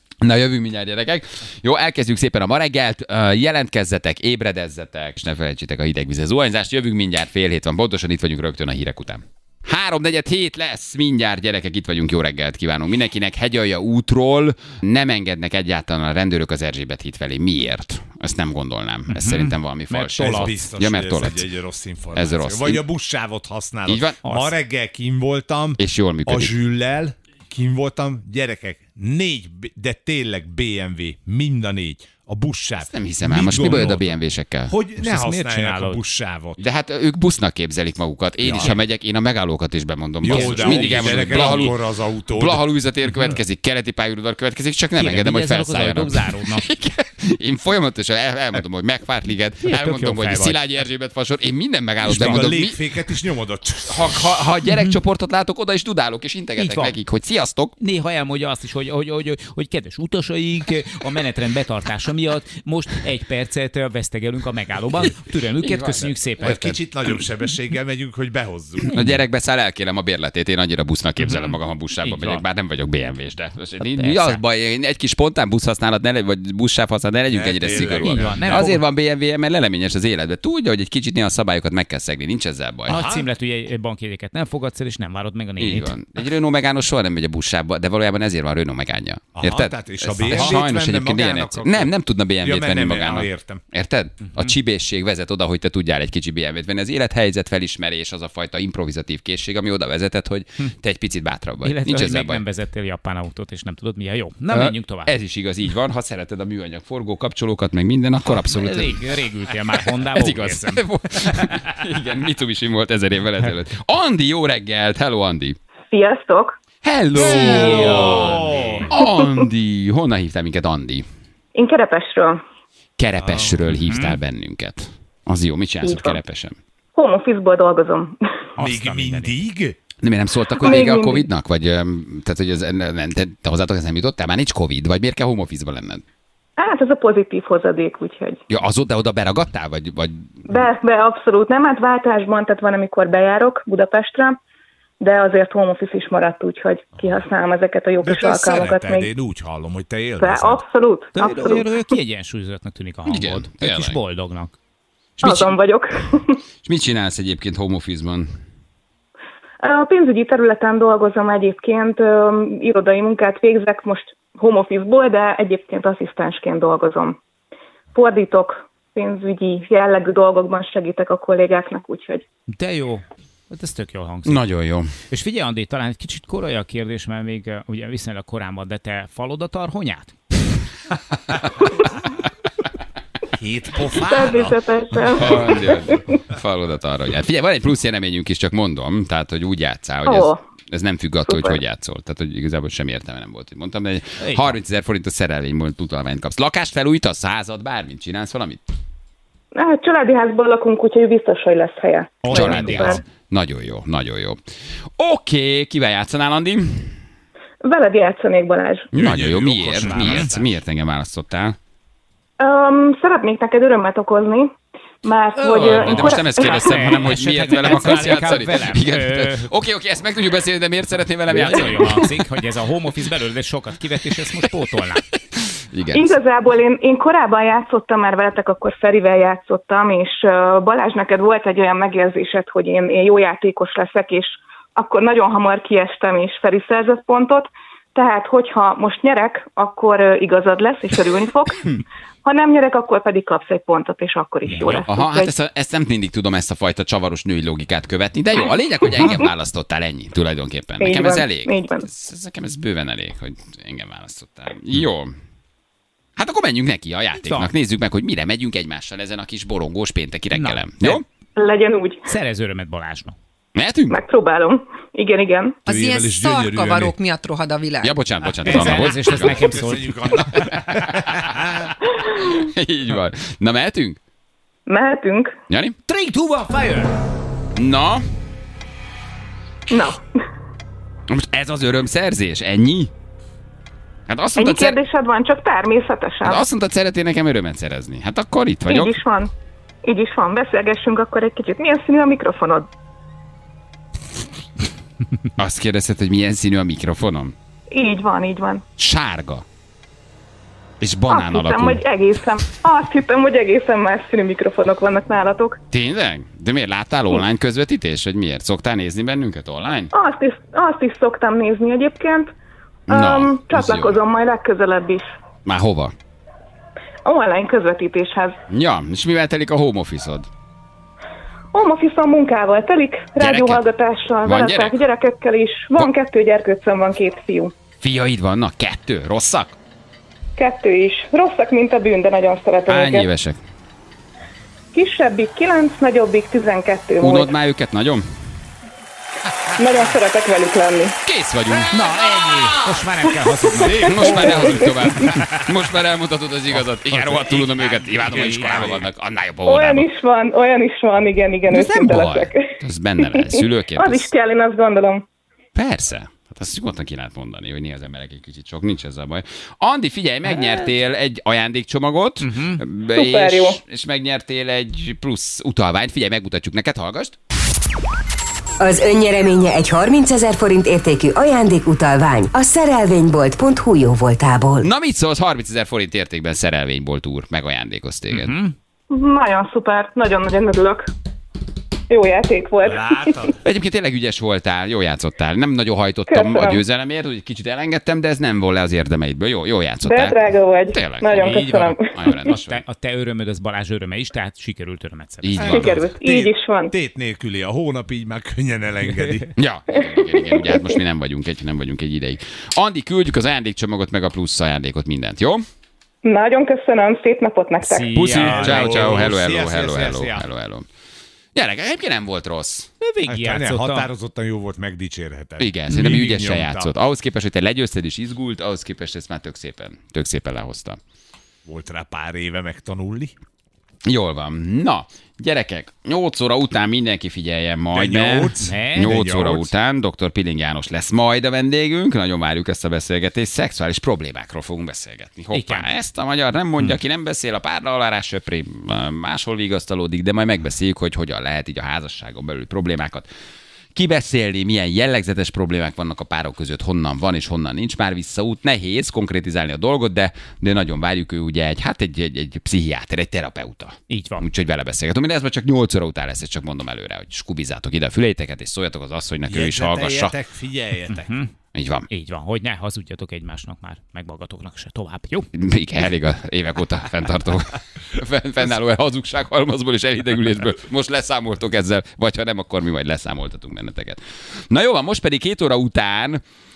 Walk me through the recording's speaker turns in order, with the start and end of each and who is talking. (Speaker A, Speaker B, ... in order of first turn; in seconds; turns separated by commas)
Speaker A: 0.2-21.5, Speaker B: 19.1-20.6, Speaker C: 20.1-34.1, Speaker A: 22.1-22.8, Speaker A: 23.9-24.2, Speaker B: 24.2-24.5, Speaker A: 25.8-26.6, Speaker A: 32.8-34.7, Speaker C: 34.7-36.6, Speaker B: 35.0-36.0, Speaker A: 36.6-41.7, Speaker C: 38.4-38.8, Speaker C: 40.2-42.6, Speaker B: 40.3-41.7, Speaker A: 42.3-52.8, Speaker B: 44.9-46.7, Speaker B: 49.6-50.6, Speaker C: 52.0-54.4, Speaker B: 52.1-52.5, Speaker A: 53.9-57.7, Speaker B: 56.5-56.9, Speaker B: 57.8-66.8, Speaker A: 65.6-66.2, Speaker C: 66.4-69.0, Speaker A: 68.8-83.0, Speaker B: 72.0-72.4, Speaker B: 73.8-74.4, Speaker C: 77.3-78.7, Speaker B: 77.7-78.8, Speaker B: 82.9-86.0, Speaker C: 82.9-83.3, Speaker A: 85.6-102.4, Speaker C: 89.3-93.6, Speaker B: 94.2-94.5, Speaker B: 101.6-105.1, Speaker A: 104.5-115.6, Speaker B: 108.2-111.7, Speaker D: 115.9-116.6, Speaker A: 116.8-121.0, Speaker C: 117.1-118.9, Speaker B: 117.2-118.9, Speaker D: 119.0-119.5, Speaker D: 121.5-122.4, Speaker A: 123.0-126.5, Speaker C: 123.2-123.7, Speaker B: 123.7-124.2, Speaker D: 125.8-126.2, Speaker D: 126.9-128.2, Speaker B: 128.6-129.3, Speaker C: 128.6-129.8, Speaker A: 130.0-136.0, Speaker D: 130.6-131.3, Speaker D: 136.6-138.4, Speaker A: 138.5-140.6, Speaker D: 140.5-144.4, Speaker D: 145.0-149.1, Speaker C: 148.0-150.6, Speaker D: 150.2-151.8, Speaker B: 151.2-154.5, Speaker A: 153.1-154.0, Speaker A: 155.2-155.5, Speaker D: 155.2-156.4, Speaker A: 156.6-158.3, Speaker D: 159.6-167.2, Speaker D: 167.9-172.2, Speaker B: 172.5-174.4, Speaker A: 174.2-174.9, Speaker B: 175.1-180.1, Speaker C: 183.3-184.6, Speaker D: 184.0-186.1, Speaker A: 185.0-198.6, Speaker D: 190.1-190.4, Speaker D: 191.3-191.6, Speaker B: 194.2-194.5, Speaker D: 199.5-203.0, Speaker B: 202.2-203.0, Speaker A: 202.3-204.4, Speaker A: 205.0-206.9, Speaker D: 207.6-208.9, Speaker C: 208.9-210.6, Speaker A: 208.9-211.6, Speaker B: 209.8-210.3, Speaker D: 212.4-214.5, Speaker D: 215.0-216.9, Speaker A: 215.4-222.2, Speaker B: 215.5-219.5, Speaker B: 221.3-225.0, Speaker A: 225.7-226.2, Speaker D: 225.9-245.3, Speaker B: 244.4-244.8, Speaker A: 244.7-255.1, Speaker D: 248.9-249.2, Speaker D: 250.8-251.8, Speaker A: 256.1-261.0, Speaker B: 257.2-257.5, Speaker B: 260.3-261.0, Speaker D: 261.4-262.1, Speaker B: 262.1-263.1, Speaker A: 263.5-264.0, Speaker D: 263.9-265.6, Speaker E: 265.6-267.9, Speaker C: 265.7-266.9, Speaker A: 267.8-269.4, Speaker B: 268.4-270.3, Speaker C: 268.6-271.7, Speaker A: 270.1-274.0, Speaker D: 274.7-275.3, Speaker A: 275.5-275.8, Speaker B: 275.9-276.9, Speaker A: 277.5-278.0, Speaker D: 279.7-280.0, Speaker A: 281.1-282.9, Speaker A: 284.1-284.8, Speaker D: 284.4-286.4, Speaker A: 286.2-289.0, Speaker D: 288.7-289.3, Speaker D: 289.8-292.7, Speaker A: 295.4-297.3, Speaker D: 297.7-298.6, Speaker A: 298.8-299.4, Speaker A: 300.8-301.8, Speaker D: 301.1-305.6, Speaker A: 305.7-309.9, Speaker D: 309.9-312.3, Speaker A: 312.9-314.0, Speaker D: 312.9-315.1, Speaker A: 315.4-315.9, Speaker D: 317.0-318.4, Speaker A: 318.5-320.3, Speaker D: 321.5-327.5, Speaker A: 323.2-323.6, Speaker A: 324.2-324.8, Speaker A: 327.8-329.6, Speaker D: 330.4-333.1, Speaker A: 332.7-333.4, Speaker D: 334.7-337.3, Speaker A: 337.0-338.1, Speaker D: 339.5-340.9, Speaker A: 341.0-341.8, Speaker B: 341.7-345.5, Speaker D: 343.6-345.0, Speaker A: 343.6-349.9, Speaker B: 346.6-348.8, Speaker D: 349.4-355.0, Speaker A: 351.5-354.1, Speaker A: 355.5-367.2, Speaker B: 362.2-362.6, Speaker D: 362.9-363.6, Speaker F: 368.6-374.7, Speaker A: 374.6-378.4, Speaker B: 378.1-378.5, Speaker D: 378.9-380.9, Speaker D: 381.9-383.3, Speaker C: 382.6-383.4, Speaker A: 383.4-392.6, Speaker D: 386.1-386.6, Speaker D: 389.8-391.9, Speaker B: 391.1-395.8, Speaker A: 395.2-395.8, Speaker D: 395.4-396.7, Speaker C: 395.8-399.3, Speaker A: 399.4-405.4, Speaker D: 399.7-400.6, Speaker D: 406.0-408.0, Speaker B: 407.6-409.1, Speaker A: 407.9-410.7, Speaker C: 408.1-410.2, Speaker A: 411.3-412.7, Speaker B: 412.8-413.9, Speaker C: 413.0-416.7, Speaker A: 415.4-420.8, Speaker C: 421.4-423.1, Speaker A: 423.9-443.1, Speaker C: 427.7-429.5, Speaker B: 428.4-429.0, Speaker B: 435.3-435.7, Speaker A: 443.7-460.1, Speaker B: 453.9-454.2, Speaker C: 459.3-461.2, Speaker B: 460.9-461.3, Speaker A: 461.5-461.9, Speaker B: 461.9-465.3, Speaker A: 465.3-476.2